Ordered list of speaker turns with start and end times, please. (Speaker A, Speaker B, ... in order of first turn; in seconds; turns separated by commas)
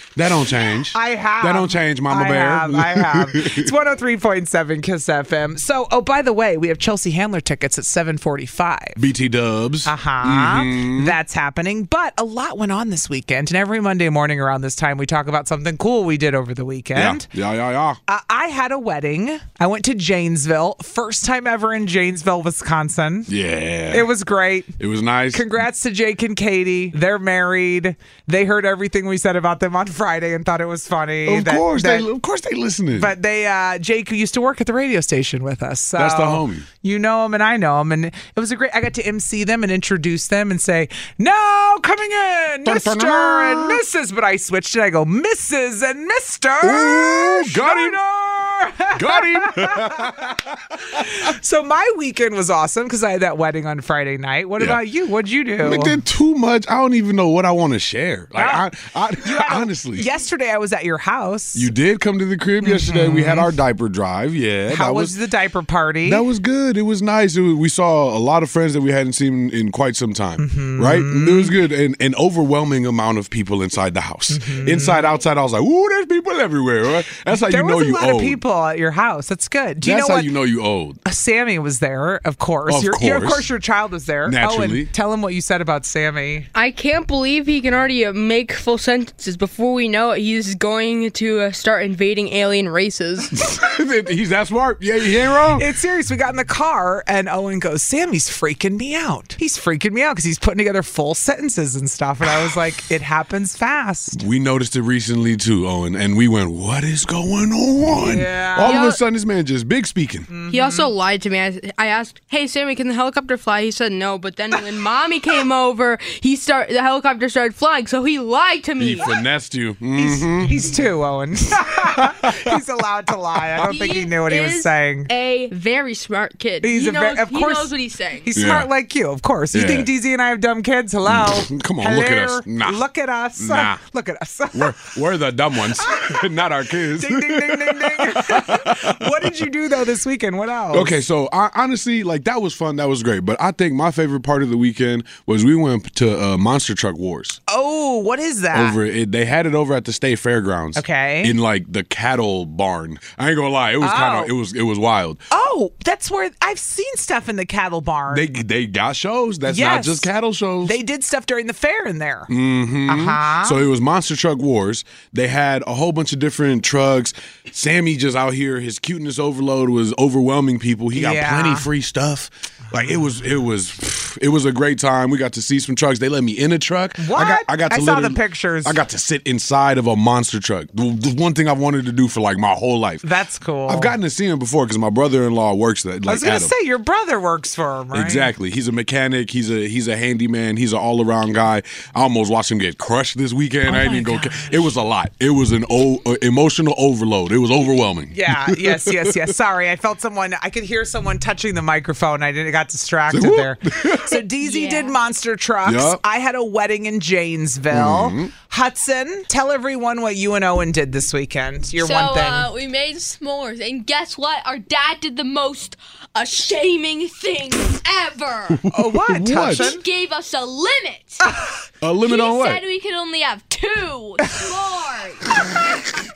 Speaker A: 0.1-3.7, Speaker B: 0.9-9.0, Speaker A: 9.0-11.2, Speaker B: 9.8-17.3, Speaker A: 16.9-18.0, Speaker B: 18.1-23.3, Speaker A: 23.3-24.1, Speaker B: 23.9-24.7, Speaker A: 24.8-25.5, Speaker B: 25.3-32.1, Speaker A: 31.3-33.1, Speaker B: 33.0-56.0, Speaker A: 36.0-36.7, Speaker A: 42.6-43.8, Speaker A: 46.6-48.0, Speaker A: 48.9-51.0, Speaker A: 55.6-60.1, Speaker B: 58.4-58.7, Speaker B: 59.2-61.7, Speaker A: 61.5-65.1, Speaker B: 62.6-63.5, Speaker B: 64.7-66.2, Speaker A: 66.0-78.4, Speaker B: 70.4-71.6, Speaker B: 74.3-75.0, Speaker B: 77.3-80.3, Speaker A: 79.8-81.0, Speaker B: 81.0-86.5, Speaker A: 82.7-83.5, Speaker A: 84.2-84.9, Speaker C: 86.5-93.5, Speaker A: 93.4-95.6, Speaker B: 95.6-104.2, Speaker A: 104.1-110.3, Speaker B: 108.0-108.8, Speaker C: 108.6-109.0, Speaker B: 110.3-110.9, Speaker C: 110.5-119.2, Speaker A: 118.8-120.6, Speaker B: 120.0-125.1, Speaker C: 123.6-128.3, Speaker B: 126.6-127.7, Speaker B: 128.2-134.9, Speaker A: 128.3-128.7, Speaker A: 129.5-129.9, Speaker A: 131.1-132.8, Speaker A: 133.4-133.8, Speaker A: 134.5-139.2, Speaker B: 135.8-136.2, Speaker B: 137.0-141.0, Speaker A: 140.7-147.4, Speaker B: 147.5-148.8, Speaker A: 148.5-155.2, Speaker B: 150.8-151.4, Speaker B: 153.8-154.3, Speaker B: 155.3-158.3, Speaker A: 158.1-160.8, Speaker B: 159.5-160.1, Speaker B: 160.6-162.3, Speaker A: 162.3-183.1, Speaker B: 162.9-163.6, Speaker B: 170.9-171.7, Speaker B: 177.0-178.8, Speaker B: 183.0-184.0, Speaker A: 183.7-186.5, Speaker B: 186.1-188.3, Speaker A: 187.9-199.3, Speaker B: 193.6-194.7, Speaker B: 198.1-212.5, Speaker A: 203.1-204.2, Speaker C: 204.4-205.0, Speaker A: 205.7-206.0, Speaker A: 207.7-208.3, Speaker C: 211.8-218.6, Speaker A: 218.5-219.7, Speaker B: 218.7-219.8, Speaker C: 219.4-221.2, Speaker B: 221.2-221.5, Speaker A: 221.8-222.6, Speaker C: 222.0-225.4